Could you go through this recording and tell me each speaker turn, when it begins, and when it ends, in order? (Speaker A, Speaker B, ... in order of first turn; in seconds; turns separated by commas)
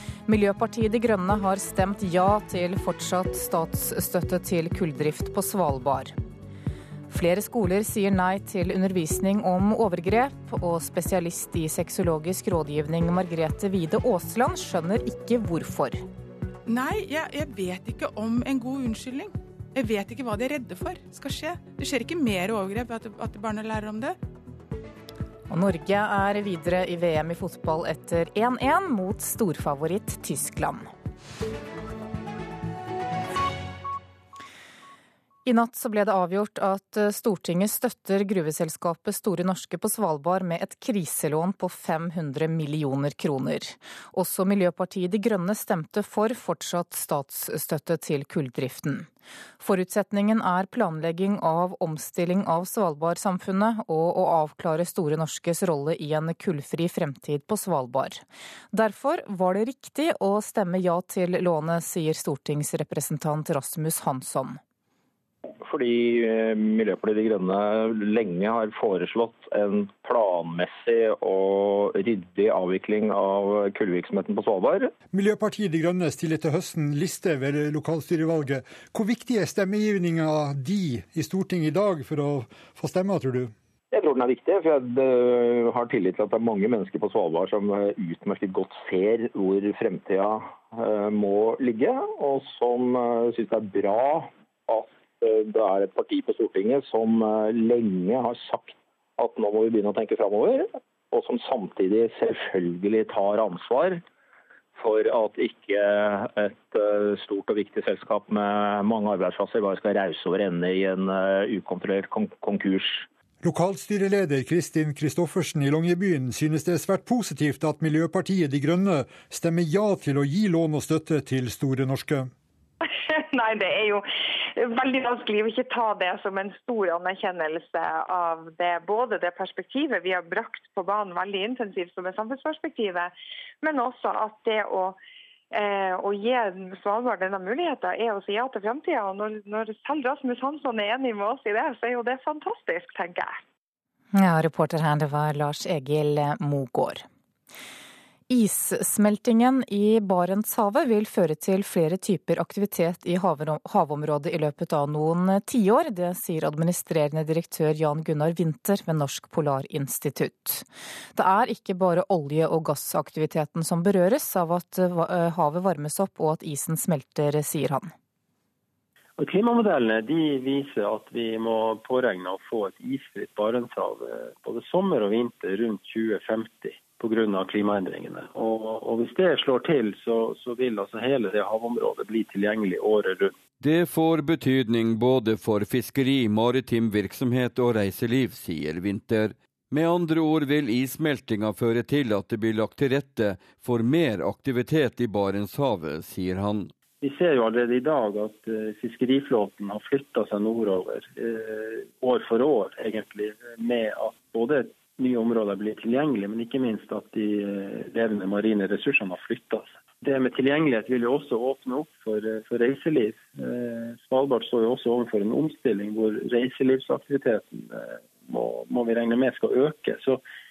Speaker A: 0.3-6.1, Speaker A: 7.1-16.0, Speaker B: 16.7-24.1, Speaker A: 25.5-30.9, Speaker A: 35.4-49.1, Speaker A: 49.6-64.6, Speaker C: 65.6-74.9, Speaker D: 75.1-83.5, Speaker C: 83.9-104.0, Speaker C: 104.8-113.0, Speaker D: 113.4-122.3, Speaker E: 122.8-124.0, Speaker E: 124.5-135.0, Speaker E: 135.5-143.4, Speaker A: 144.1-147.0, Speaker A: 148.3-160.6, Speaker A: 161.2-167.9, Speaker F: 169.2-183.3, Speaker G: 183.6-196.7, Speaker F: 197.0-220.2